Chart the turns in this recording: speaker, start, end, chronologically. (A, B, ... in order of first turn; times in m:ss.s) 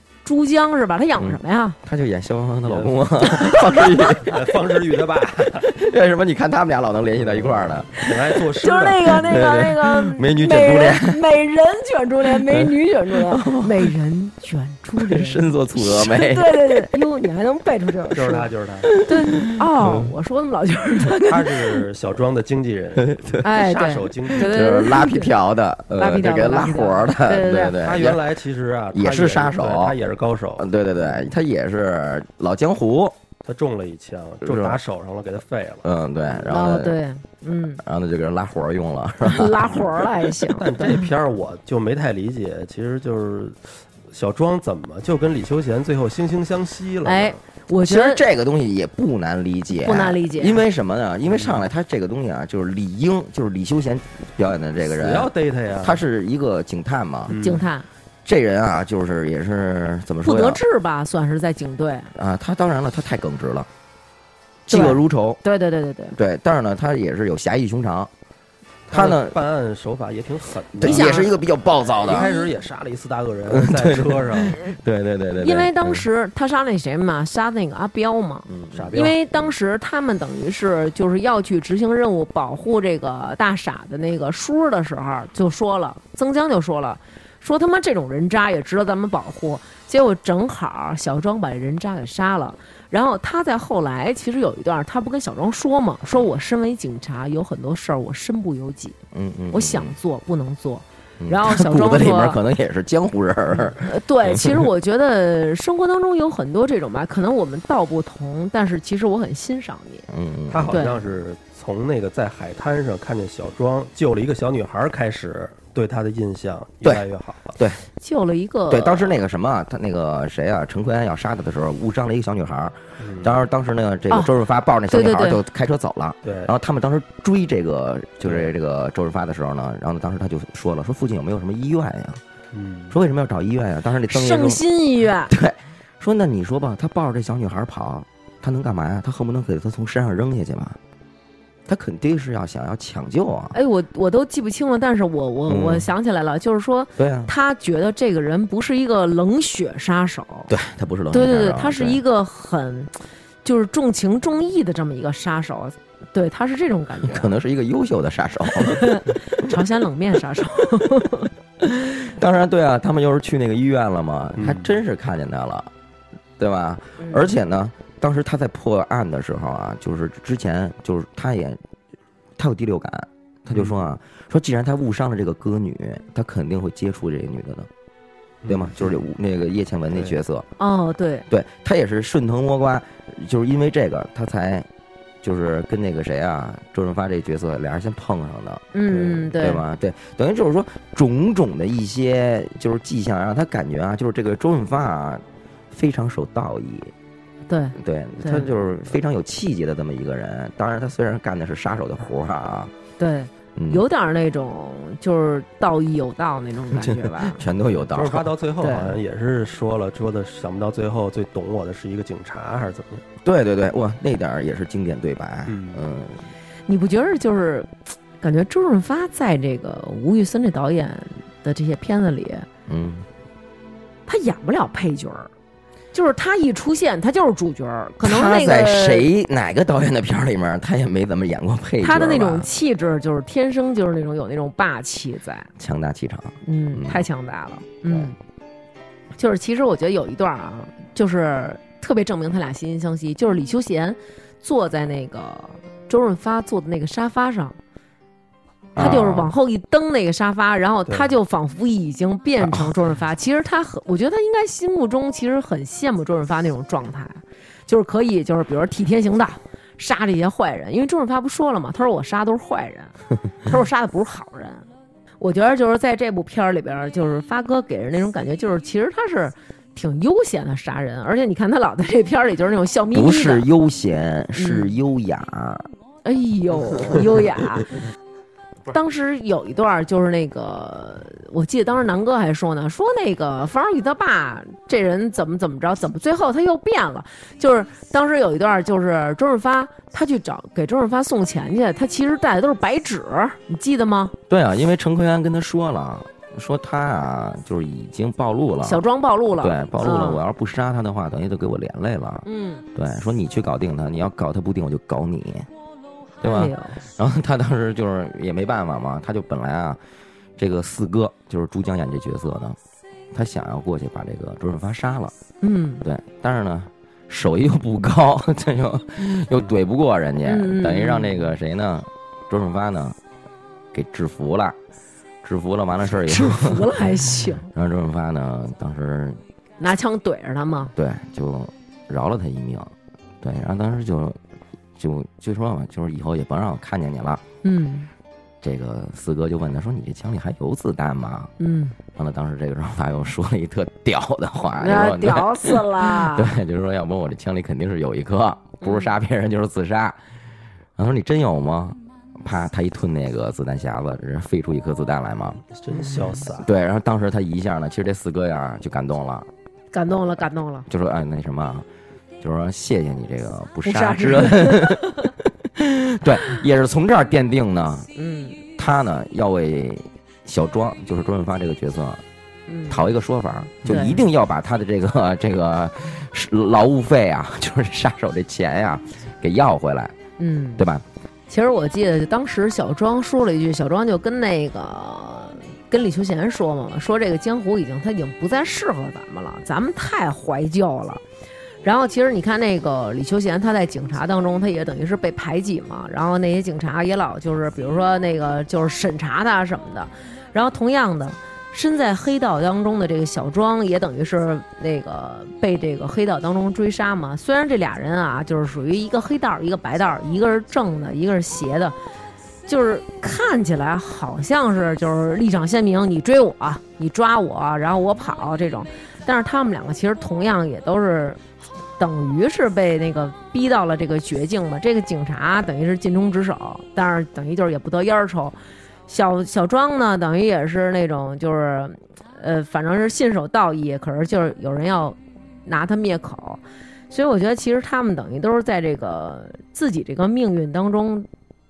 0:00.2-0:01.8 A
0:01.2-0:04.5 B
0:02.6-0:05.7 C
0:03.3-0:04.0 A
0:05.4-0:08.0 B
0:07.2-0:09.4 C
0:08.6-0:21.8 A
0:09.1-0:11.2 B
0:12.3-0:12.7 B
0:13.3-0:13.9 B
0:15.0-0:16.8 B
0:18.1-0:18.9 C
0:18.8-0:20.1 B
0:21.3-0:24.7 C
0:23.0-0:23.4 B
0:23.4-0:25.4 A
0:24.4-0:28.2 B
0:25.9-0:27.8 A
0:27.8-0:31.3 C
0:28.9-0:30.0 B
0:30.6-0:33.2 B
0:33.4-0:36.5 C
0:34.4-0:34.8 B
0:35.8-0:37.0 B
0:36.5-0:37.8 A
0:37.8-0:40.3 B
0:39.2-0:40.9 A
0:40.5-0:47.4 C
0:47.0-0:48.2 A
0:47.8-0:57.4 B
0:49.8-0:50.6 A
0:51.3-0:51.7 C
0:54.9-0:56.0 C
0:57.3-0:57.7 C
0:57.4-0:57.9 A
0:58.2-1:00.6 B
1:00.2-1:02.1 A
1:02.2-1:03.7 B
1:04.7-1:05.4 B
1:04.7-1:06.2 A
1:06.1-1:08.1 B
1:08.9-1:09.4 B
1:08.9-1:11.4 C
1:10.8-1:12.3 B
1:10.8-1:11.4 A
1:12.0-1:14.6 C
1:12.1-1:12.5 A
1:13.5-1:16.1 B
1:15.4-1:39.0 A
1:18.5-1:19.4 B
1:18.7-1:19.2 C
1:39.1-1:40.0 B
1:39.5-1:42.4 A
1:41.2-1:44.7 B
1:43.6-1:50.1 A
1:50.1-1:50.8 B
1:50.5-1:57.6 C
1:50.7-1:51.0 A
1:57.6-1:57.8 B
1:58.0-1:59.2 A
1:58.7-2:12.2 B
2:03.0-2:03.4 C
2:04.9-2:05.4 A
2:06.2-2:06.5 C
2:08.2-2:08.5 C
2:12.5-2:13.0 C
2:12.9-2:14.6 B
2:14.1-2:15.3 A
2:15.3-2:20.8 B
2:21.7-2:23.6 B
2:23.5-2:30.5 A
2:25.5-2:25.9 B
2:27.0-2:27.3 B
2:30.5-2:32.0 B
2:31.1-2:37.3 A
2:37.0-2:39.5 B
2:38.6-2:41.3 A
2:41.6-2:45.7 B
2:44.4-2:44.7 C
2:46.4-2:51.6 B
2:47.0-2:47.3 A
2:52.4-2:57.7 B
2:53.5-2:53.8 C
2:58.4-2:59.0 C
2:58.5-3:00.5 B
2:59.9-3:00.2 C
3:00.6-3:01.3 A
3:01.3-3:04.7 B
3:05.2-3:16.9 B
3:08.7-3:09.6 A
3:17.5-3:18.5 A
3:17.8-3:22.7 B
3:23.0-3:27.4 A
3:23.6-3:23.8 B
3:26.7-3:28.3 B
3:27.8-3:33.0 C
3:28.6-3:29.0 A
3:33.2-3:36.3 B
3:35.5-3:35.8 C
3:36.7-3:42.5 A
3:42.7-3:43.1 B
3:44.1-3:45.3 A
3:45.9-3:49.1 A
3:48.0-3:52.5 B
3:51.8-3:55.5 A
3:55.6-3:57.0 B
3:56.4-3:58.2 A
3:57.8-3:58.1 B
3:59.2-4:07.6 A
4:08.8-4:09.3 B
4:08.8-4:24.7 A
4:10.9-4:11.1 C
4:12.4-4:12.8 B
4:25.2-4:33.5 A
4:32.9-4:35.7 B
4:34.3-4:34.8 A
4:36.0-4:37.7 A
4:38.7-4:54.1 A
4:54.3-4:58.8 B
4:58.6-5:00.2 A
4:59.4-5:05.5 B
5:02.2-5:02.6 A
5:06.2-5:09.8 B
5:06.2-5:06.8 A
5:10.4-5:12.6 B
5:13.1-5:15.2 B
5:15.4-5:15.8 A
5:15.8-5:23.0 B
5:20.2-5:21.3 A
5:23.7-5:24.6 B
5:25.2-5:26.7 B
5:26.0-5:27.5 A
5:27.5-5:29.2 B
5:29.6-5:30.7 A
5:30.8-5:34.2 B
5:34.8-5:37.2 B
5:37.4-5:37.9 A
5:38.4-5:41.3 B
5:41.4-5:41.8 A
5:42.0-5:50.1 B
5:44.6-5:46.4 A
5:48.6-5:48.9 A
5:50.8-5:55.4 B
5:55.5-5:56.5 C
5:55.7-5:56.0 A
5:56.4-5:59.3 B
5:59.7-6:00.7 A
6:00.7-6:01.7 B
6:02.2-6:07.9 B
6:03.6-6:05.1 A
6:08.0-6:08.4 A
6:08.6-6:12.0 B
6:12.5-6:12.9 A
6:12.7-6:20.0 B
6:13.6-6:14.0 A
6:20.2-6:20.6 A
6:20.6-6:20.8 B
6:21.3-6:31.0 A
6:31.6-6:51.8 A
6:52.5-7:01.2 A
7:01.8-7:21.1 A